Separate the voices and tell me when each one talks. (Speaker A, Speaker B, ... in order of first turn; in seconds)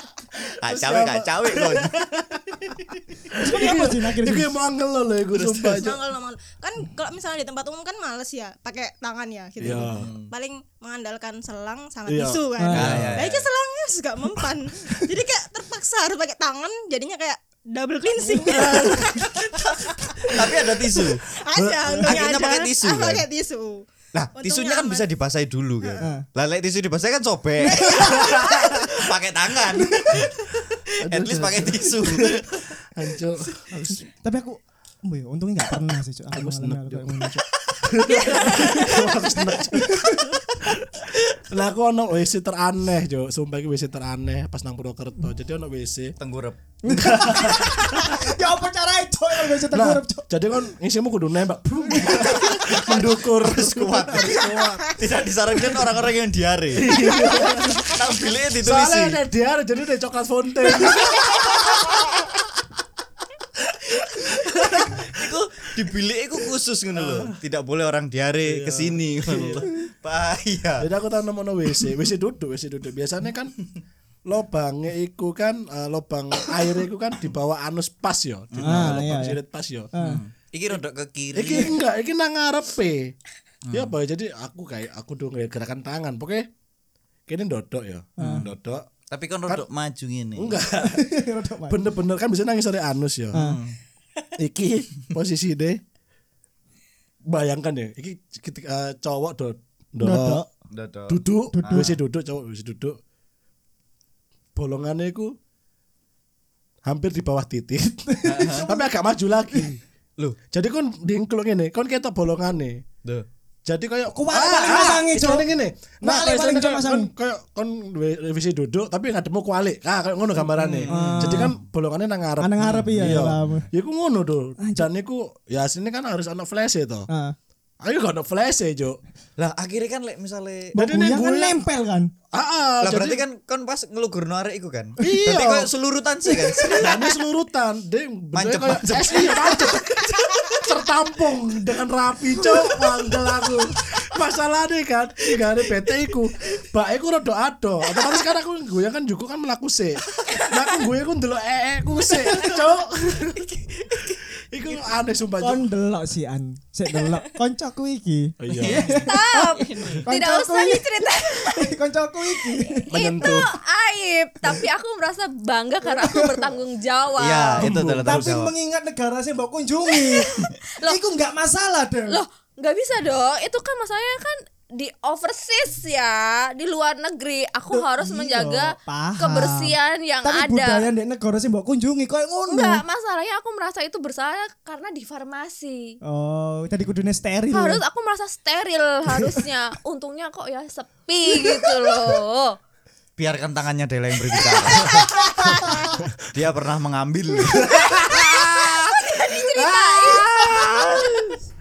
Speaker A: 0.4-6.0, 9.6-10.1, 12.1-13.2, 18.4-19.3, 20.1-20.5, 21.5-22.3, 28.0-28.9, 30.9-34.0, 36.3-46.1, 46.9-48.1, 49.5-54.9, 56.7-61.3, 64.1-65.2, 66.9-67.3, 68.4-69.7, 70.8-73.7, 74.2-79.9, 81.3-83.1, 83.7-86.5, 87.3-88.9, 90.3-91.1, 91.7-93.5, 94.4-95.8, 97.2-100.4, 101.1-103.0, 104.5-105.3, 106.8-109.8, 110.5-112.8, 113.7-127.1, 127.8-129.0, 130.7-131.6, 132.3-133.2, 135.0-135.4, 136.7-153.5, 154.1-155.7, 158.4-159.1, 162.9-163.6, 167.6-168.3, 195.7-196.2, 197.5-201.2
Speaker B: 0.6-1.9, 5.3-5.9, 9.9-10.3, 12.7-13.5, 20.3-21.2, 22.0-23.2, 24.1-28.2, 28.9-32.7, 46.2-46.6, 52.1-59.2, 61.2-61.5, 64.2-70.9, 78.5-79.0, 80.0-81.8, 83.7-83.9, 88.2-88.5, 89.1-90.6, 93.3-93.8, 100.7-101.9, 108.2-108.7, 120.5-121.5, 122.6-123.0, 129.4-130.7, 132.8-137.1, 138.3-140.6, 153.4-154.2, 167.2-168.5, 193.2-195.1, 196.2-198.0
Speaker C: 3.4-4.5, 12.6-13.1, 26.0-26.2, 34.1-37.4, 38.5-39.1, 39.7-40.4, 46.8-50.5, 78.6-79.4, 79.9-80.2, 88.2-88.5, 90.8-91.8, 100.0-100.5, 101.5-102.0, 108.1-108.9, 114.1-115.5, 116.0-117.1, 120.8-121.5, 122.4-123.7, 124.6-124.9, 127.1-127.3, 130.7-132.1, 135.0-135.7, 136.3-136.8, 155.4-159.3, 160.0-162.9, 165.8-166.4, 168.0-172.2, 177.7-182.8, 186.0-187.8, 195.4-195.9
Speaker D: 5.7-20.7, 21.4-25.1, 27.6-28.8
Speaker E: 158.6-161.7, 162.9-167.6, 170.1-171.0, 172.1-180.9, 182.5-186.0, 187.5-192.6, 198.1-201.3